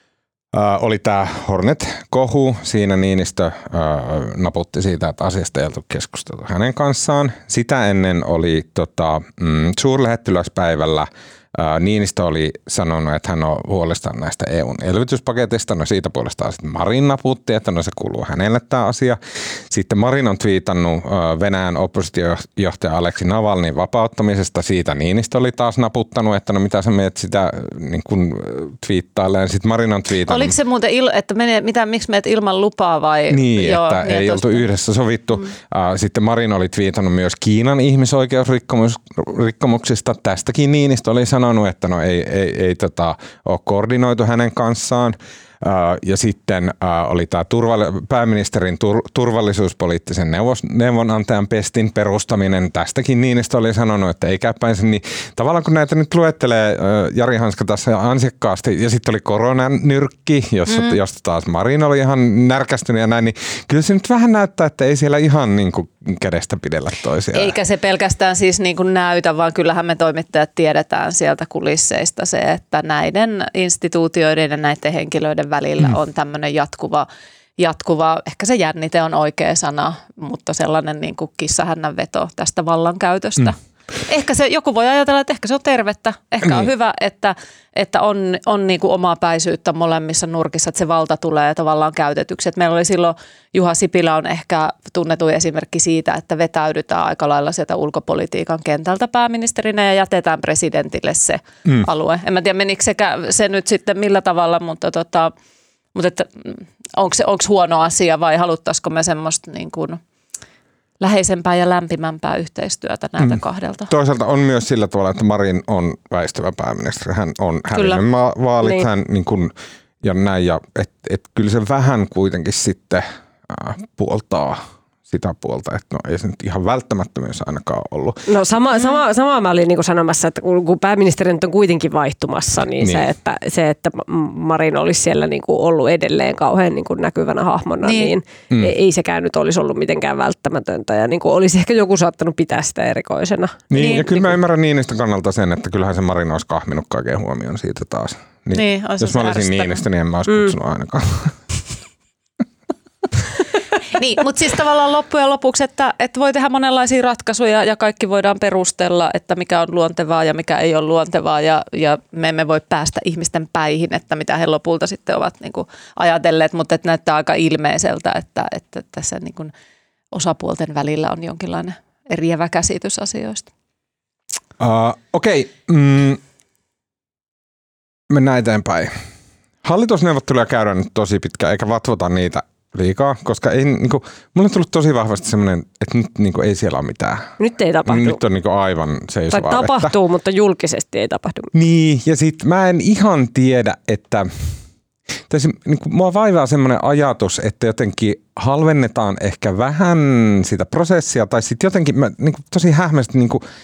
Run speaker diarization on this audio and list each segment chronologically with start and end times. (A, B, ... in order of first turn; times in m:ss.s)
0:00.5-0:30.6 A
0:30.3-0:34.7 B
0:33.3-1:07.6 A
1:00.7-1:01.0 B
1:07.3-1:17.1 B
1:17.6-1:45.3 B
1:26.4-1:26.7 A
1:45.9-1:50.0 B
1:51.0-1:53.9 B
1:53.2-2:08.2 A
1:57.7-1:58.0 B
2:08.3-2:24.0 C
2:12.8-2:13.1 A
2:17.8-2:18.1 B
2:23.7-2:31.4 A
2:23.7-2:24.3 B
2:28.5-2:29.8 B
2:30.3-2:30.5 C
2:33.9-2:49.5 B
2:50.1-2:53.5 B
2:54.6-2:56.2 A
2:58.1-2:58.9 A
2:59.6-3:07.3 A
3:07.4-3:08.2 C
3:07.8-3:10.0 A
3:09.3-3:11.5 C
3:11.5-3:14.3 A
3:15.3-3:23.4 A